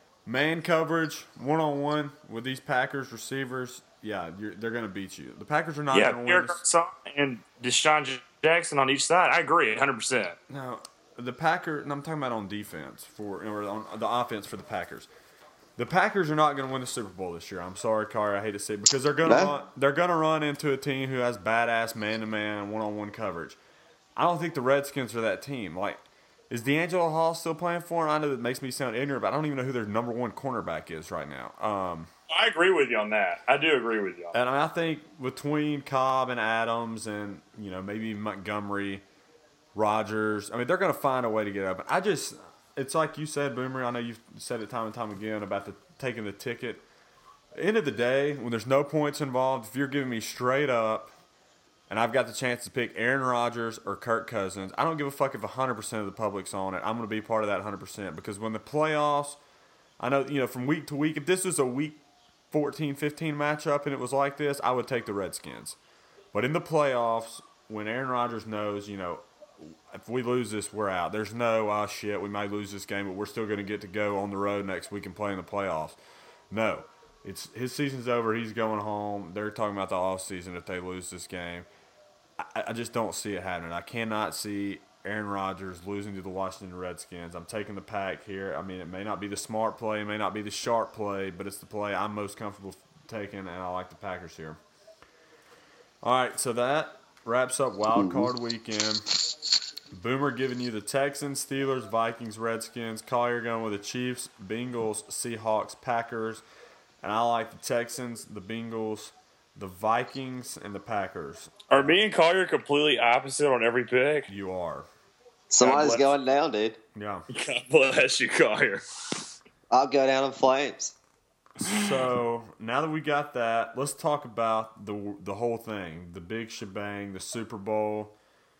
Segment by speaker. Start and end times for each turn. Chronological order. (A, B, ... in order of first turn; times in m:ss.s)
0:00.3-0:06.6 A
0:05.9-0:10.4 B
0:10.5-0:15.1 A
0:15.8-0:23.6 A
0:19.2-0:19.5 C
0:24.2-0:32.1 A
0:32.3-0:34.3 B
0:34.3-0:39.0 A
0:39.8-0:46.8 A
0:47.5-0:51.1 A
0:51.9-0:59.4 A
1:00.0-1:05.8 A
1:06.3-1:16.0 A
1:16.5-1:21.7 A
1:22.4-1:34.6 A
1:36.0-1:39.1 A
1:38.0-1:38.3 C
1:39.9-1:46.4 A
1:47.0-1:51.9 A
1:51.7-1:54.3 B
1:54.3-1:54.9 A
1:55.5-1:56.8 C
1:55.6-1:56.1 B
1:57.0-1:57.3 A
1:57.3-1:58.8 B
1:59.7-2:01.0 C
2:01.6-2:08.1 A
2:01.7-2:02.0 B